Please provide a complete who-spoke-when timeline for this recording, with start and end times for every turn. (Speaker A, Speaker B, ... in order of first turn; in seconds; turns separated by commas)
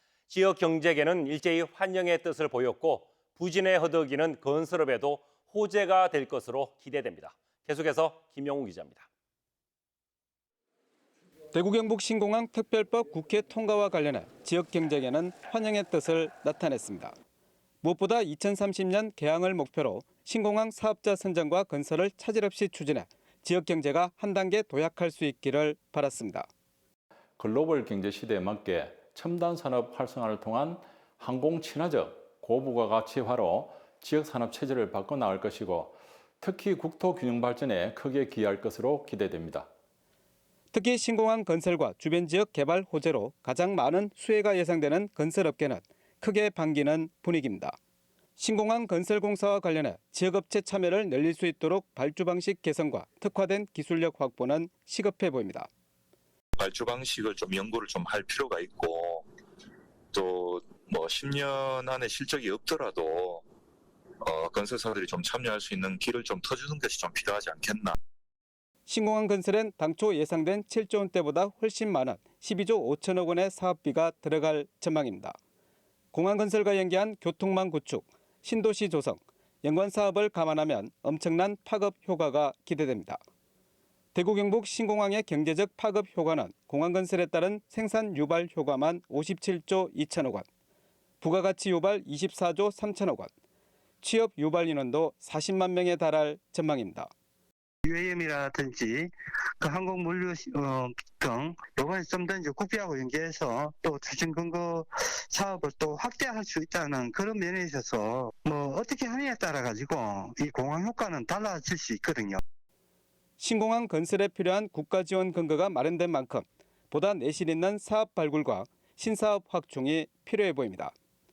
Speaker A: 0.3-9.1, Speaker B: 11.5-17.1, Speaker B: 17.8-26.5, Speaker C: 27.4-39.7, Speaker B: 40.7-47.8, Speaker B: 48.4-55.7, Speaker D: 56.6-59.3, Speaker D: 60.1-63.4, Speaker D: 64.2-68.0, Speaker B: 68.9-75.4, Speaker B: 76.1-83.2, Speaker B: 84.1-90.5, Speaker B: 91.2-93.3, Speaker B: 94.0-97.1, Speaker E: 97.8-112.4, Speaker B: 113.4-120.9